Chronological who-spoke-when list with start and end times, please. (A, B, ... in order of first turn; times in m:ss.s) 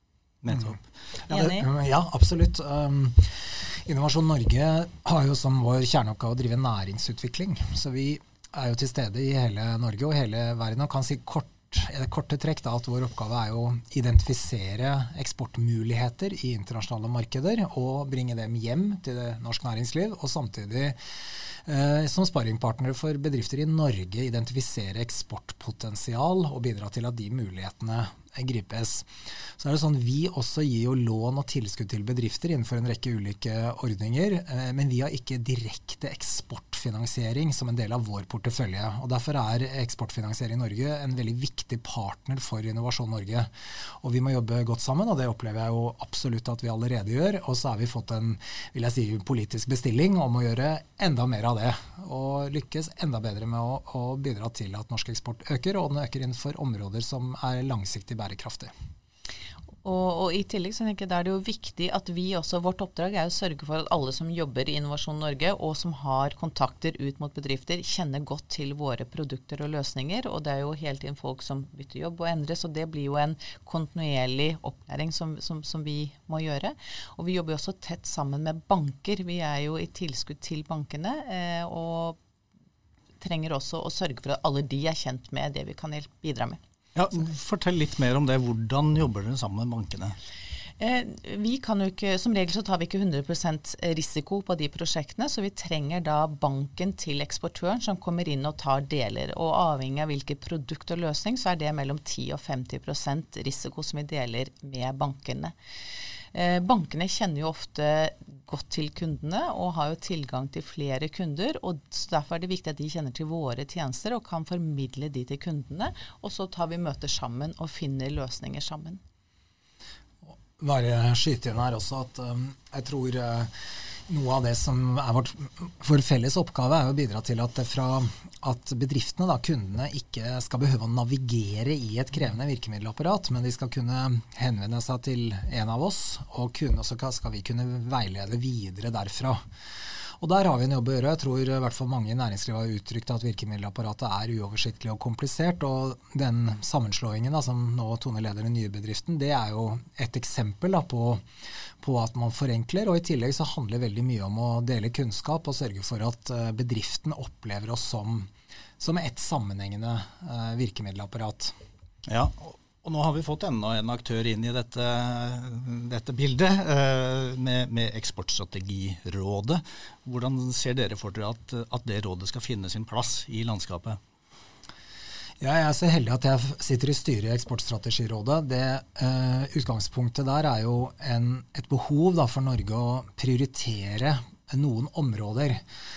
0:00.4-0:00.8 A
0:00.5-0:21.0 B
0:01.3-0:01.7 C
0:21.6-0:58.7 B
0:59.8-1:22.2 C
1:23.2-1:26.6 C
1:26.9-1:30.1 A
1:30.8-1:45.5 C
1:46.3-1:59.0 C
2:00.2-2:03.5 B
2:04.1-2:19.4 B
2:20.2-2:31.2 B
2:31.8-2:41.5 B
2:42.1-2:54.0 A
2:55.4-3:05.6 B